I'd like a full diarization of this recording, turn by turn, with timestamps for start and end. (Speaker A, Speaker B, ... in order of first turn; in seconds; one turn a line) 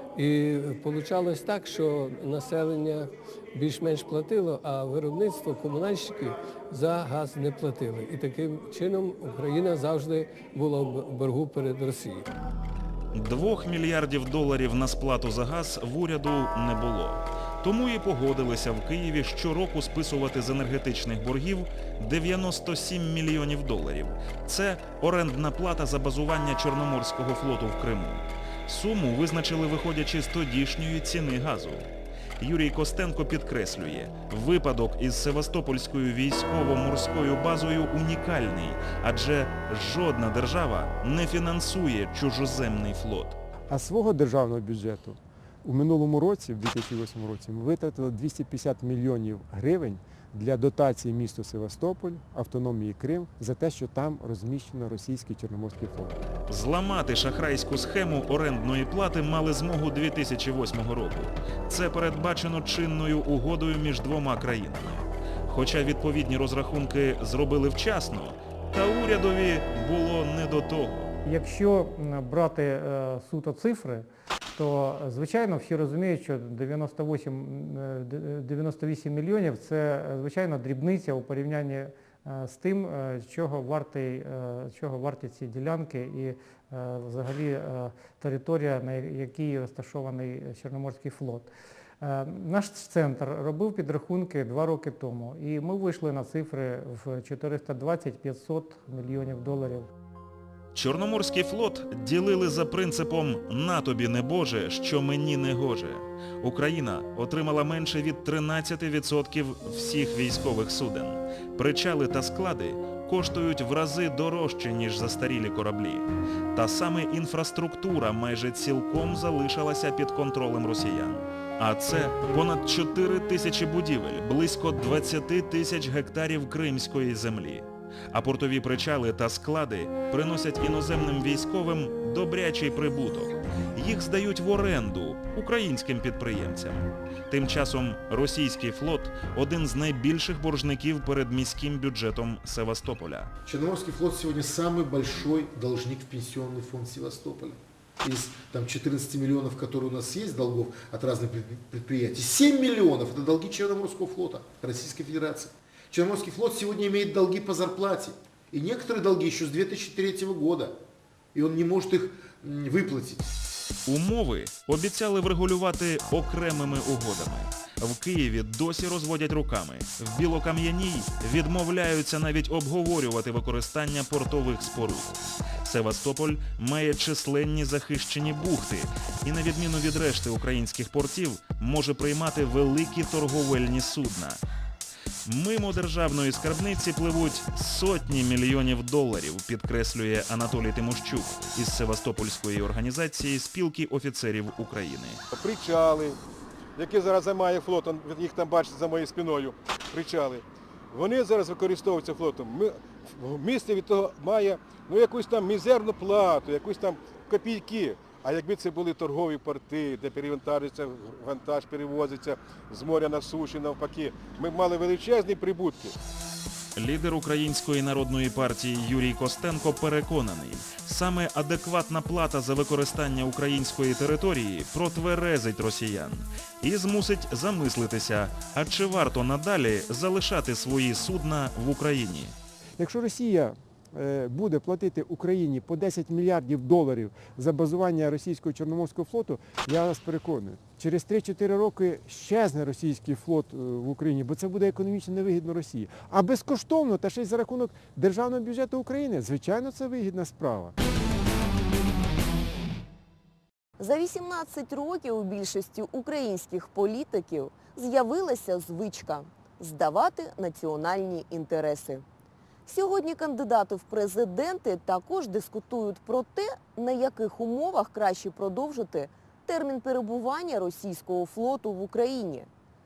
Speaker A: 0.2-12.3
Speaker B: 13.1-43.4
Speaker C: 43.7-56.2
Speaker B: 56.5-71.1
Speaker D: 71.2-91.5
Speaker D: 92.0-99.9
Speaker B: 100.7-143.3
Speaker E: 143.4-160.8
Speaker E: 161.3-163.3
Speaker B: 163.9-184.4
Speaker B: 185.2-195.2
Speaker F: 195.3-196.2
Speaker F: 196.8-216.0
Speaker B: 216.8-232.4
Speaker C: 232.8-250.8
Speaker G: 253.8-262.1
Speaker G: 262.7-272.5